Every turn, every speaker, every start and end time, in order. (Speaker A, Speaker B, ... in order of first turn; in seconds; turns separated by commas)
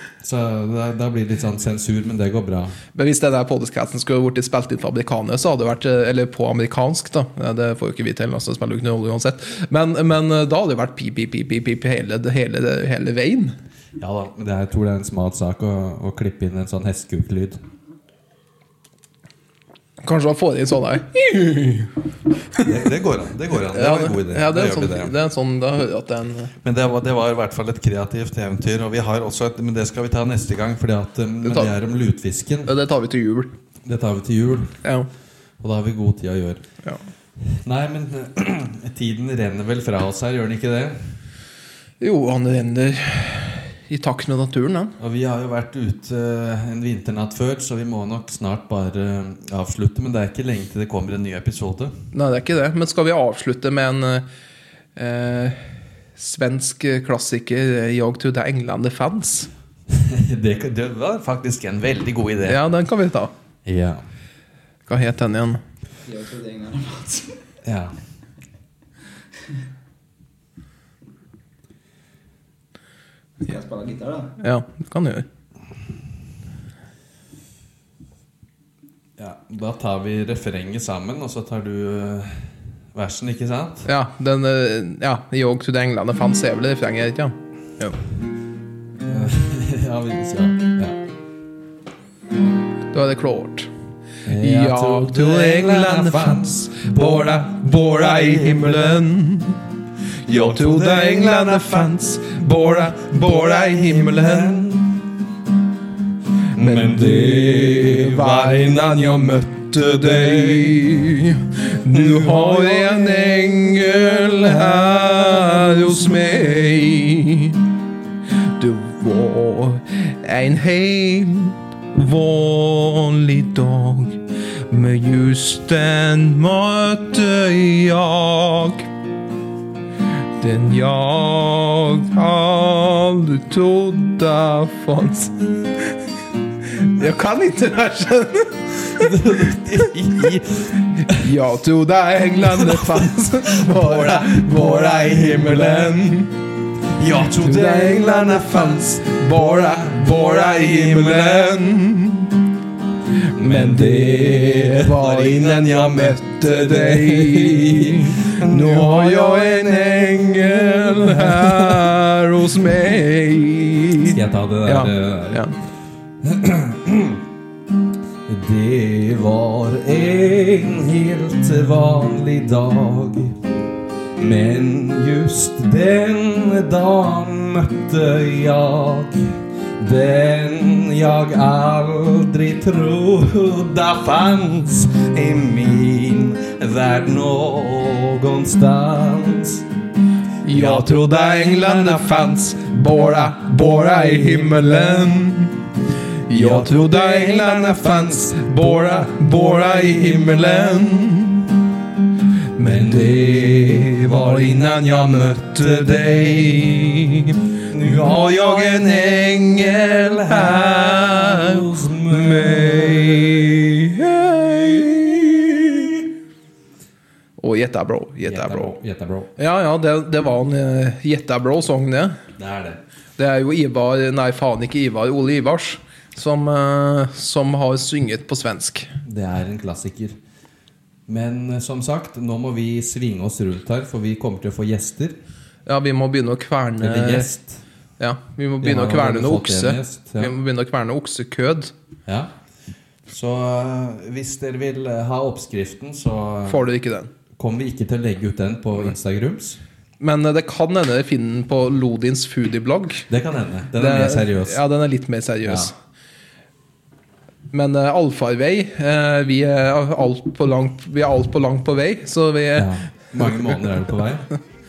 Speaker A: 0.2-2.8, Speaker B: 3.0-13.6, Speaker A: 14.0-17.6, Speaker B: 20.0-21.9, Speaker A: 22.6-25.1, Speaker B: 23.7-26.5, Speaker A: 26.6-32.7, Speaker B: 31.4-31.7, Speaker B: 32.6-33.5, Speaker A: 33.9-34.8, Speaker B: 34.8-35.1, Speaker A: 35.6-36.6, Speaker A: 37.4-41.0, Speaker B: 42.0-45.0, Speaker A: 45.0-52.0, Speaker B: 52.1-54.2, Speaker B: 55.0-55.6, Speaker B: 56.2-59.5, Speaker A: 59.9-62.6, Speaker B: 62.5-63.3, Speaker A: 63.6-64.0, Speaker B: 64.9-65.6, Speaker C: 66.0-67.4, Speaker A: 67.6-68.0, Speaker C: 73.4-74.3, Speaker B: 74.4-75.3, Speaker A: 79.2-83.9, Speaker B: 83.9-88.0, Speaker A: 89.0-91.0, Speaker B: 92.9-93.7, Speaker A: 94.2-96.6, Speaker B: 94.4-99.6, Speaker A: 100.3-101.3, Speaker B: 100.3-104.8, Speaker A: 103.4-104.6, Speaker A: 106.6-110.7, Speaker B: 106.6-117.6, Speaker A: 112.0-112.5, Speaker B: 118.6-128.9, Speaker B: 130.4-135.4, Speaker B: 136.7-139.1, Speaker A: 138.9-141.2, Speaker B: 141.0-146.3, Speaker A: 143.7-144.4, Speaker A: 147.0-149.2, Speaker B: 147.3-152.4, Speaker B: 153.4-165.5, Speaker A: 153.4-161.9, Speaker A: 164.0-165.5, Speaker A: 166.2-167.2, Speaker A: 168.3-173.4, Speaker A: 174.2-189.6, Speaker B: 190.4-195.6, Speaker A: 190.5-190.9, Speaker B: 196.3-201.5, Speaker A: 196.3-196.9, Speaker B: 202.6-216.0, Speaker A: 202.6-203.9, Speaker A: 207.7-208.9, Speaker A: 210.2-213.3, Speaker B: 217.4-218.8, Speaker A: 218.2-219.3, Speaker B: 219.4-222.2, Speaker A: 222.4-222.8, Speaker B: 223.2-228.9, Speaker A: 229.1-230.2, Speaker A: 231.1-235.2, Speaker B: 235.7-237.3, Speaker A: 236.8-237.6, Speaker B: 238.0-241.7, Speaker A: 238.6-240.3, Speaker A: 242.1-242.3, Speaker A: 243.1-246.6, Speaker B: 246.5-247.1, Speaker A: 247.4-249.6, Speaker B: 250.0-253.1, Speaker A: 253.1-254.6, Speaker B: 253.8-255.8, Speaker A: 255.4-255.7, Speaker B: 257.5-263.5, Speaker A: 262.6-264.3